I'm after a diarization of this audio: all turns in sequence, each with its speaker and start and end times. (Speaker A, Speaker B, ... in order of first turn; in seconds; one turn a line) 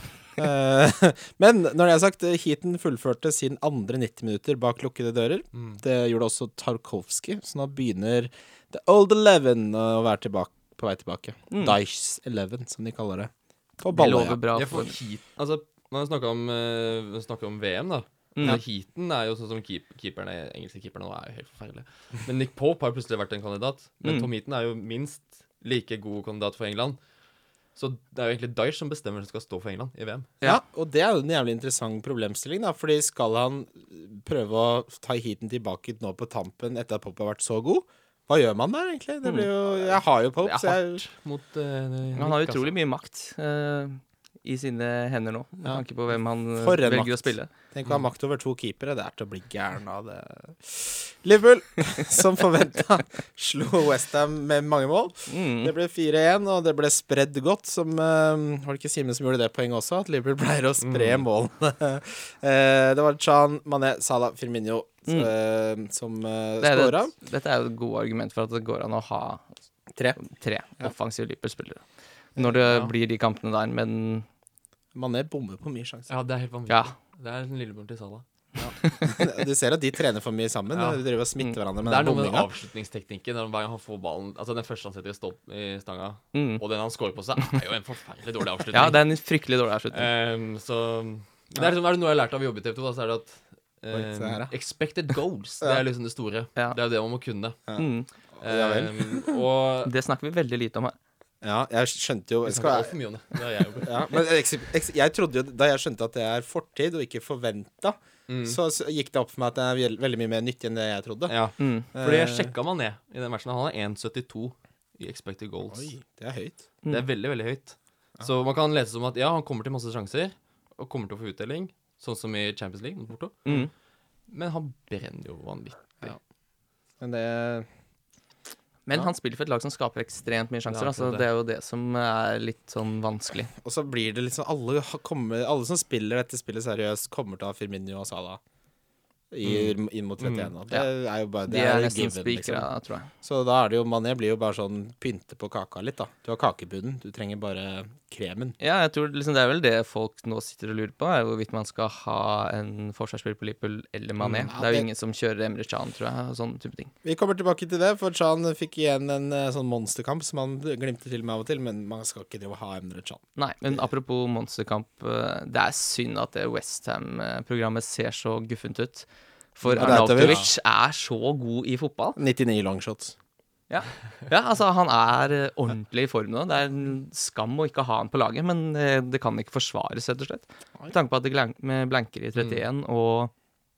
Speaker A: 0.3-14.4
Speaker B: 5.5-5.8
Speaker C: 11.5-11.8
Speaker C: 13.9-14.9
Speaker B: 14.5-27.0
Speaker C: 18.3-18.6
Speaker B: 27.8-30.3
Speaker A: 30.4-41.0
Speaker B: 40.4-42.7
Speaker C: 42.1-47.5
Speaker A: 46.6-67.1
Speaker C: 55.3-55.7
Speaker B: 60.8-61.2
Speaker C: 66.6-69.5
Speaker A: 69.9-70.2
Speaker C: 70.2-71.8
Speaker C: 72.3-74.3
Speaker A: 74.9-76.1
Speaker B: 76.1-78.2
Speaker A: 78.6-82.5
Speaker C: 78.8-79.2
Speaker B: 80.7-81.0
Speaker B: 81.8-89.0
Speaker C: 86.3-86.6
Speaker C: 88.7-90.1
Speaker B: 89.9-97.6
Speaker A: 93.9-94.5
Speaker C: 97.8-98.1
Speaker A: 98.4-99.3
Speaker B: 98.4-99.9
Speaker C: 99.8-101.0
Speaker A: 101.4-102.9
Speaker B: 102.5-104.1
Speaker A: 103.8-111.3
Speaker B: 108.3-108.6
Speaker B: 111.3-115.9
Speaker C: 111.6-111.9
Speaker A: 111.9-112.5
Speaker A: 115.7-116.7
Speaker B: 116.9-123.5
Speaker B: 124.3-126.1
Speaker A: 127.0-127.7
Speaker C: 128.8-133.5
Speaker B: 130.7-131.2
Speaker A: 133.6-138.4
Speaker A: 139.3-142.7
Speaker B: 139.4-140.5
Speaker C: 141.4-143.1
Speaker A: 143.2-148.6
Speaker C: 148.6-156.9
Speaker B: 154.2-154.5
Speaker A: 154.5-154.9
Speaker A: 157.0-163.2
Speaker C: 163.3-172.2
Speaker B: 169.7-170.5
Speaker A: 169.7-170.4
Speaker A: 172.2-173.1
Speaker C: 173.7-183.3